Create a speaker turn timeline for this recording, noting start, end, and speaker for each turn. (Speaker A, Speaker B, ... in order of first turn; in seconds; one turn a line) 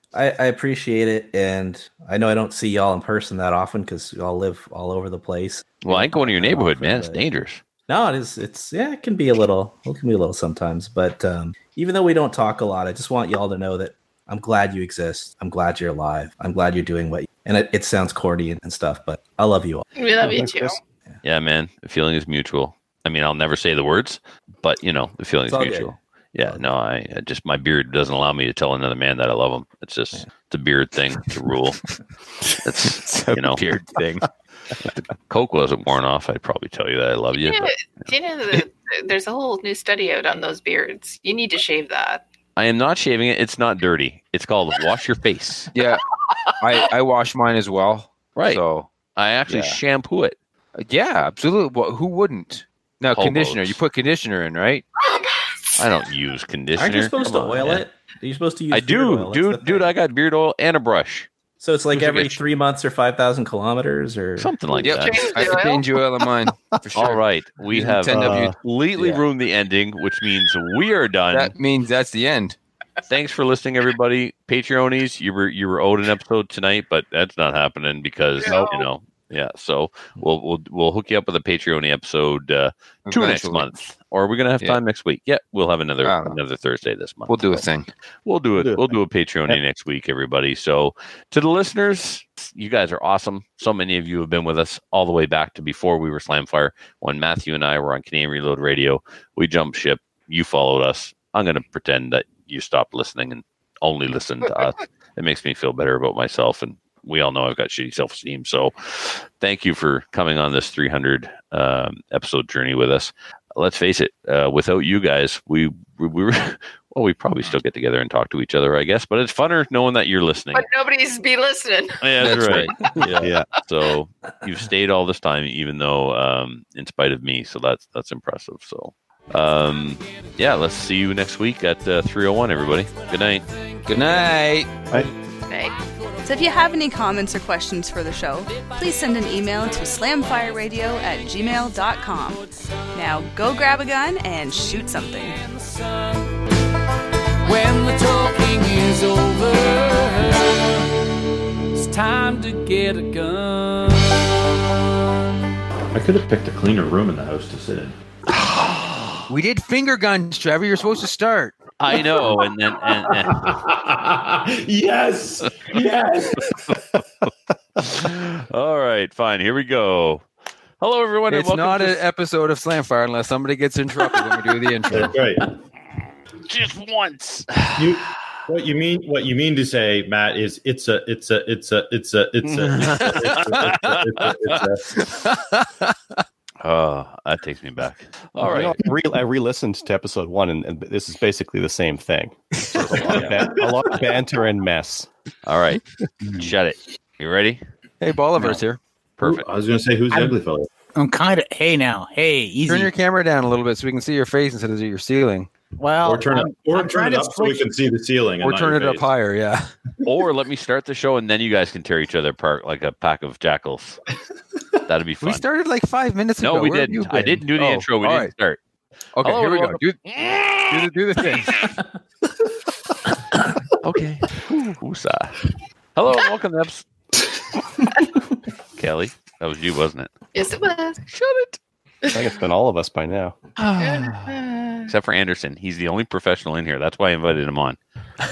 Speaker A: 0.1-7.2
Speaker B: 5.9-7.6
Speaker A: 7.9-20.3
Speaker C: 20.0-20.8
Speaker D: 20.2-20.5
Speaker B: 21.2-31.8
Speaker A: 25.5-25.9
Speaker E: 32.5-34.3
Speaker B: 32.6-33.6
Speaker B: 35.3-38.1
Speaker C: 37.3-42.2
Speaker B: 42.6-45.7
Speaker E: 45.7-46.0
Speaker C: 46.1-46.8
Speaker E: 46.6-48.9
Speaker B: 48.4-48.6
Speaker B: 49.1-50.4
Speaker E: 49.5-49.8
Speaker E: 50.8-54.9
Speaker B: 53.1-53.8
Speaker C: 55.0-55.8
Speaker B: 55.8-57.9
Speaker A: 56.8-59.9
Speaker B: 58.7-61.3
Speaker A: 61.6-64.5
Speaker B: 61.9-62.4
Speaker B: 64.4-65.5
Speaker C: 64.8-65.9
Speaker E: 64.8-69.2
Speaker B: 67.0-71.5
Speaker D: 67.8-68.5
Speaker E: 71.3-72.6
Speaker B: 73.1-87.7
Speaker C: 78.4-78.9
Speaker E: 83.1-83.7
Speaker E: 86.0-86.4
Speaker E: 87.3-87.9
Speaker B: 88.2-120.7
Speaker D: 88.6-89.0
Speaker C: 120.5-122.0
Speaker B: 122.0-133.4
Speaker E: 122.2-122.8
Speaker D: 123.0-123.5
Speaker F: 133.0-134.4
Speaker E: 133.9-134.7
Speaker C: 135.5-135.8
Speaker F: 136.3-136.8
Speaker G: 136.3-142.4
Speaker F: 139.3-141.3
Speaker G: 142.9-145.4
Speaker F: 145.3-146.3
Speaker F: 147.4-150.8
Speaker F: 151.8-154.3
Speaker H: 155.9-158.8
Speaker E: 159.3-161.6
Speaker B: 161.8-163.4
Speaker H: 161.9-166.7
Speaker B: 165.4-165.8
Speaker B: 166.5-166.8
Speaker B: 167.8-170.2
Speaker B: 170.8-172.0
Speaker E: 171.3-175.1
Speaker B: 174.1-175.2
Speaker H: 174.9-175.5
Speaker B: 176.5-178.3
Speaker H: 177.8-185.0
Speaker B: 182.4-184.6
Speaker E: 182.8-183.8
Speaker E: 184.9-185.9
Speaker B: 186.6-188.8
Speaker D: 188.4-195.1
Speaker B: 192.9-193.3
Speaker H: 192.9-194.1
Speaker B: 195.4-195.8
Speaker B: 196.4-197.6
Speaker E: 198.0-198.8
Speaker B: 199.2-199.4
Speaker H: 199.2-200.7
Speaker I: 200.1-200.4
Speaker I: 200.9-202.9
Speaker E: 202.7-205.5
Speaker I: 205.8-207.7
Speaker H: 206.0-209.1
Speaker E: 208.4-209.8
Speaker B: 210.0-214.0
Speaker B: 214.9-215.4
Speaker E: 215.2-218.3
Speaker B: 216.4-218.6
Speaker E: 219.2-220.0
Speaker B: 219.2-221.8
Speaker E: 220.7-221.6
Speaker B: 223.1-226.9
Speaker B: 228.8-230.1
Speaker C: 230.3-231.0
Speaker B: 231.2-231.6
Speaker D: 232.1-233.4
Speaker B: 233.6-234.3
Speaker C: 233.8-234.9
Speaker B: 234.9-237.8